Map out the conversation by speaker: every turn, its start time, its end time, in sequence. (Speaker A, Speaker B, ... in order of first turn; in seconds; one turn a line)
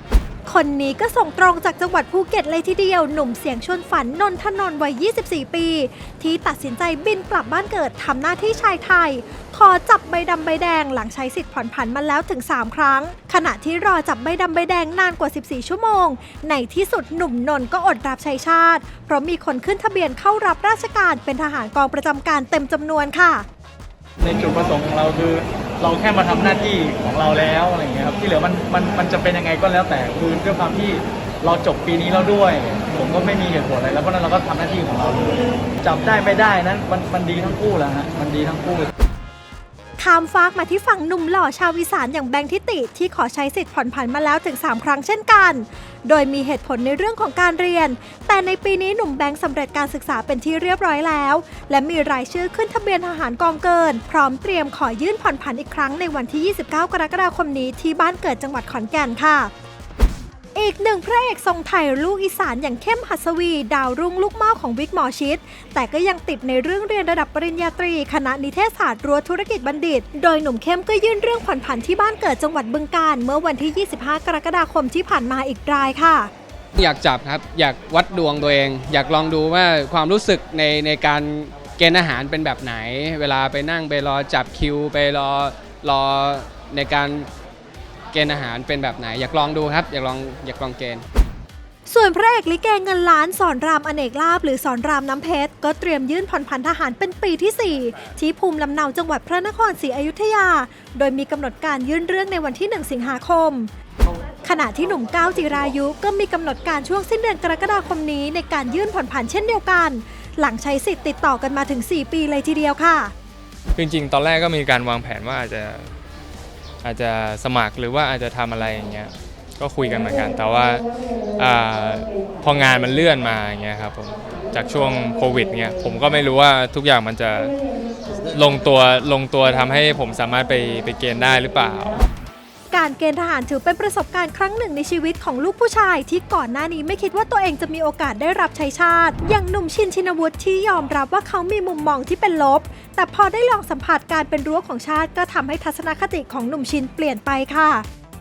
Speaker A: 0.5-23.5
Speaker B: 24.2-38.9
Speaker A: 40.0-59.5
Speaker A: 60.5-76.3
Speaker C: 76.8-87.3
Speaker C: 88.1-91.0
Speaker A: 91.9-103.7
Speaker A: 104.4-113.1
Speaker D: 113.8-115.9
Speaker D: 116.8-120.8
Speaker D: 121.4-127.5
Speaker D: 128.3-132.0
Speaker A: 132.7-147.8